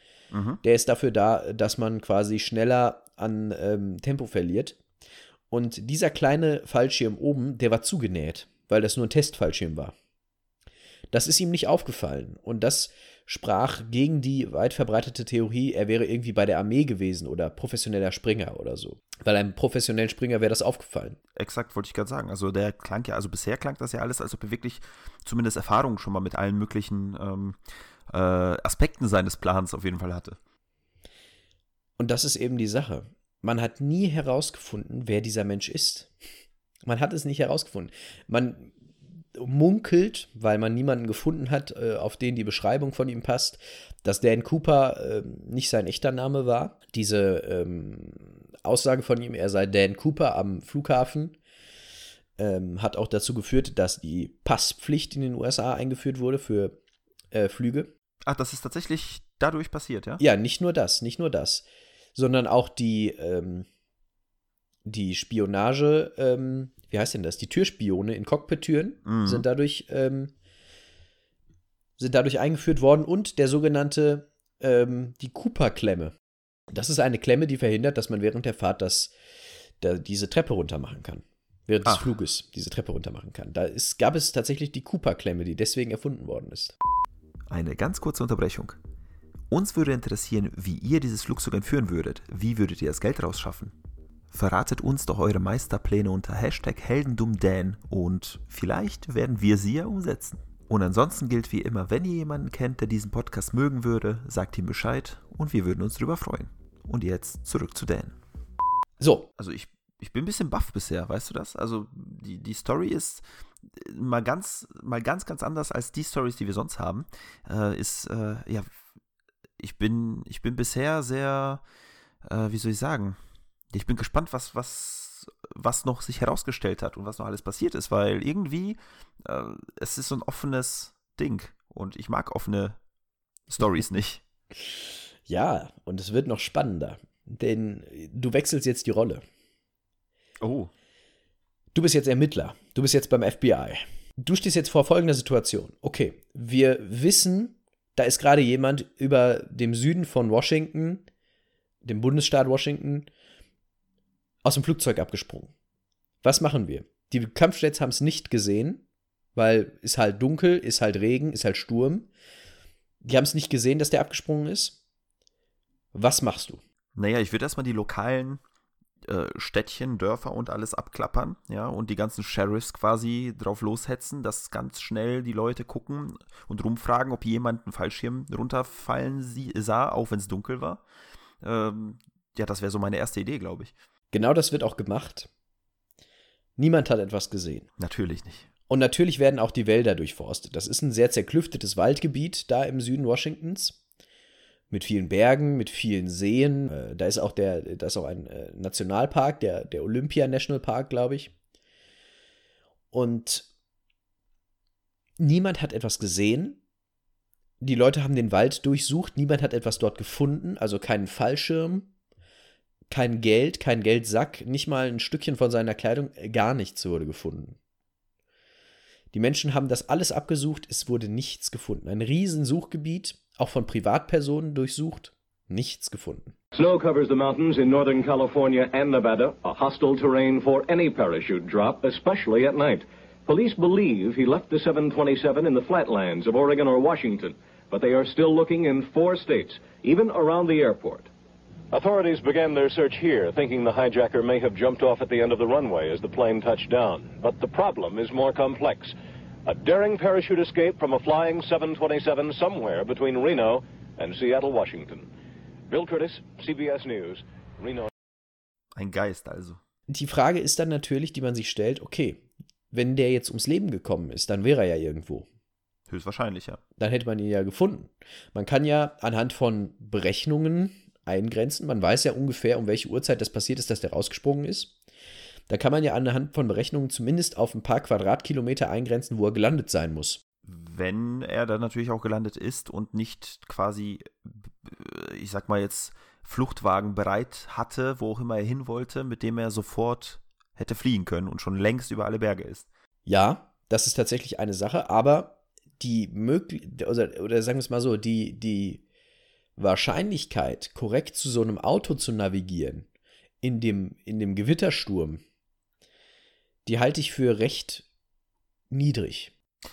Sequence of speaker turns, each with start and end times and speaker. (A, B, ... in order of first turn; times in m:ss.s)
0:00.3-0:00.6 A
0:00.6-0:04.8 B
0:05.5-0:09.9 B
0:11.1-0:21.2 B
0:21.4-0:27.6 A
0:28.1-0:30.4 A
0:32.0-0:36.1 B
0:36.8-0:38.7 B
0:39.4-0:51.4 B
0:52.4-0:56.8 B
0:57.3-0:57.9 B
0:58.2-1:00.2 A
1:00.2-1:03.6 B
1:04.9-1:10.3 B
1:09.1-1:09.4 A
1:12.0-1:16.1 B
1:16.7-1:19.1 B
1:19.8-1:26.7 B
1:27.5-1:28.8 A
1:29.5-1:33.7 A
1:34.3-1:48.2 A
1:49.0-1:49.3 B
1:49.4-1:58.7 A
1:59.6-2:01.6 A
2:02.2-2:03.2 A
2:03.7-2:12.8 A
2:13.5-2:14.2 A
2:15.3-2:19.2 B
2:20.4-2:20.7 A
2:21.7-2:31.1 B
2:31.8-2:33.1 B
2:34.4-2:35.5 B
2:36.2-2:38.8 B
2:39.4-2:42.1 B
2:43.0-2:44.8 B
2:45.9-2:46.6 B
2:46.9-2:48.4 A
2:49.0-3:00.8 A
3:01.4-3:03.7 A
3:04.1-3:05.3 B
3:06.6-3:07.7 B
3:07.8-3:08.5 A
3:08.7-3:13.8 B
3:14.7-3:21.3 B
3:22.9-3:23.5 B
3:25.2-3:26.6 B
3:27.6-3:31.9 B
3:32.9-3:37.6 B
3:39.1-3:46.3 B
3:46.5-4:01.1 C
4:01.7-4:08.9 C
4:09.4-4:15.1 C
4:15.7-4:17.9 C
4:18.7-4:19.6 A
4:19.9-4:25.2 B
4:25.9-4:26.6 A
4:26.8-4:34.7 B
4:35.5-4:40.2 B
4:40.4-4:52.7 A
4:53.1-4:58.8 B
4:59.6-5:02.9 B
5:03.4-5:05.2 B
5:06.6-5:07.8 B
5:08.7-5:09.3 B